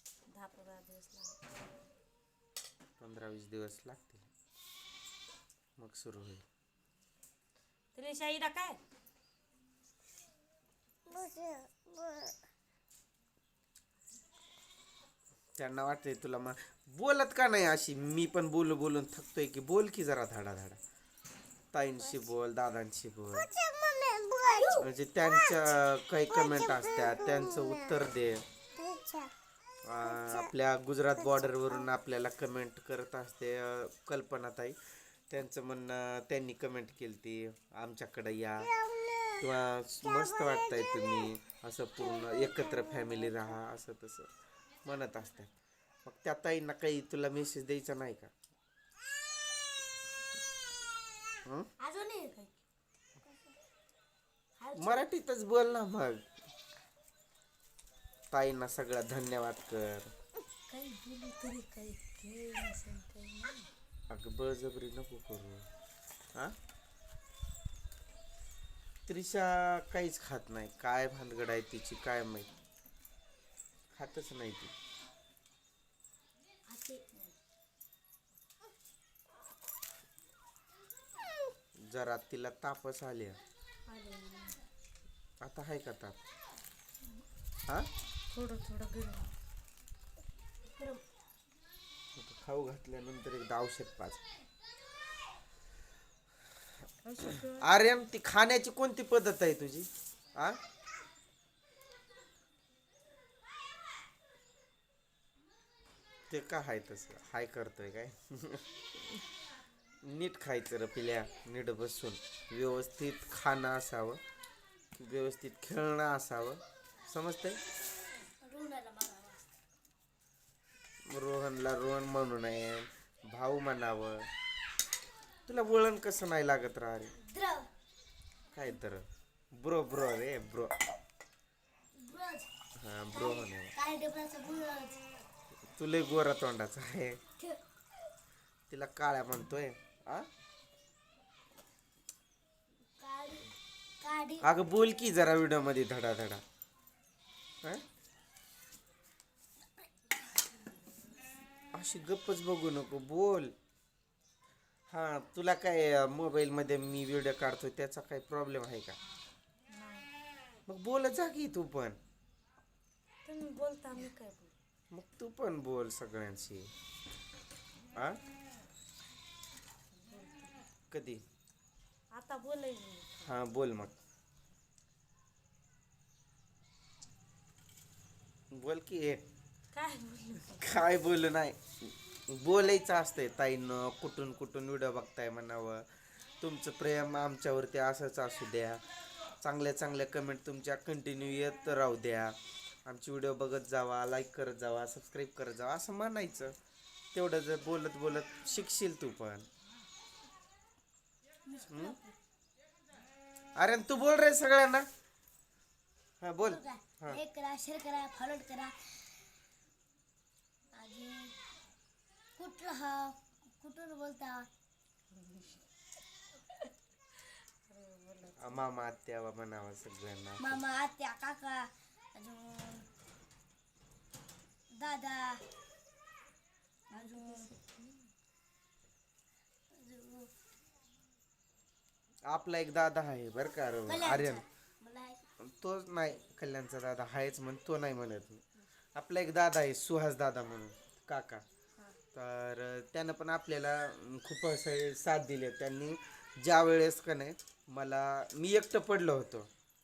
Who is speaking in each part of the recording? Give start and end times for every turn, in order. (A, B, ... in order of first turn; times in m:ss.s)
0:00.3-0:01.4 A
0:03.0-0:04.3 B
0:05.8-0:06.4 B
0:07.9-0:08.8 A
0:11.2-0:11.7 C
0:15.6-0:20.8 B
0:21.7-0:23.5 B
0:24.2-0:24.8 C
0:24.8-0:28.4 B
0:29.8-0:34.8 B
0:35.3-0:38.8 B
0:39.3-0:44.3 B
0:44.8-0:45.5 B
0:46.0-0:48.3 B
0:51.8-0:52.3 C
0:54.6-0:55.1 C
0:54.8-0:56.2 B
0:58.3-1:00.1 B
1:00.7-1:03.7 A
1:04.1-1:05.7 B
1:09.1-1:12.5 B
1:13.9-1:14.7 B
1:16.7-1:17.1 C
1:21.8-1:23.4 B
1:23.9-1:24.6 C
1:25.4-1:26.2 B
1:28.3-1:29.3 A
1:30.7-1:31.0 C
1:32.2-1:34.2 B
1:37.0-1:37.7 A
1:37.5-1:40.6 B
1:46.3-1:49.2 B
1:50.0-1:54.2 B
1:55.0-1:57.6 B
1:58.4-1:59.4 C
2:01.1-2:04.3 B
2:05.5-2:07.2 B
2:07.2-2:07.7 C
2:08.5-2:10.7 B
2:11.9-2:12.5 C
2:12.8-2:13.7 B
2:13.1-2:15.0 C
2:15.8-2:17.2 B
2:18.7-2:20.3 B
2:23.0-2:23.5 C
2:24.0-2:24.5 C
2:24.4-2:26.4 B
2:31.7-2:33.5 B
2:34.9-2:39.0 B
2:39.7-2:40.1 A
2:40.7-2:42.0 B
2:43.2-2:44.5 A
2:44.9-2:46.7 B
2:49.9-2:50.5 A
2:50.9-2:51.2 B
2:52.1-2:53.4 A
2:53.2-2:54.0 B
2:58.5-2:59.2 B
2:59.7-3:00.6 A
3:00.6-3:08.8 B
3:09.4-3:16.5 B
3:17.1-3:19.5 B
3:21.5-3:22.2 C
3:21.7-3:22.0 B
3:23.6-3:24.9 B
3:26.2-3:27.2 B
3:26.4-3:28.8 C
3:30.7-3:31.4 C
3:32.4-3:34.5 C
3:35.2-3:35.6 A
3:37.7-3:38.6 A
3:38.4-3:40.6 B
3:40.4-3:42.9 C
3:44.7-3:45.4 C
3:46.9-3:47.5 C
3:47.0-3:48.1 A
3:49.7-3:50.3 C
3:52.3-3:54.4 B
3:53.9-3:55.2 C
3:55.4-4:01.4 B
4:02.1-4:09.5 B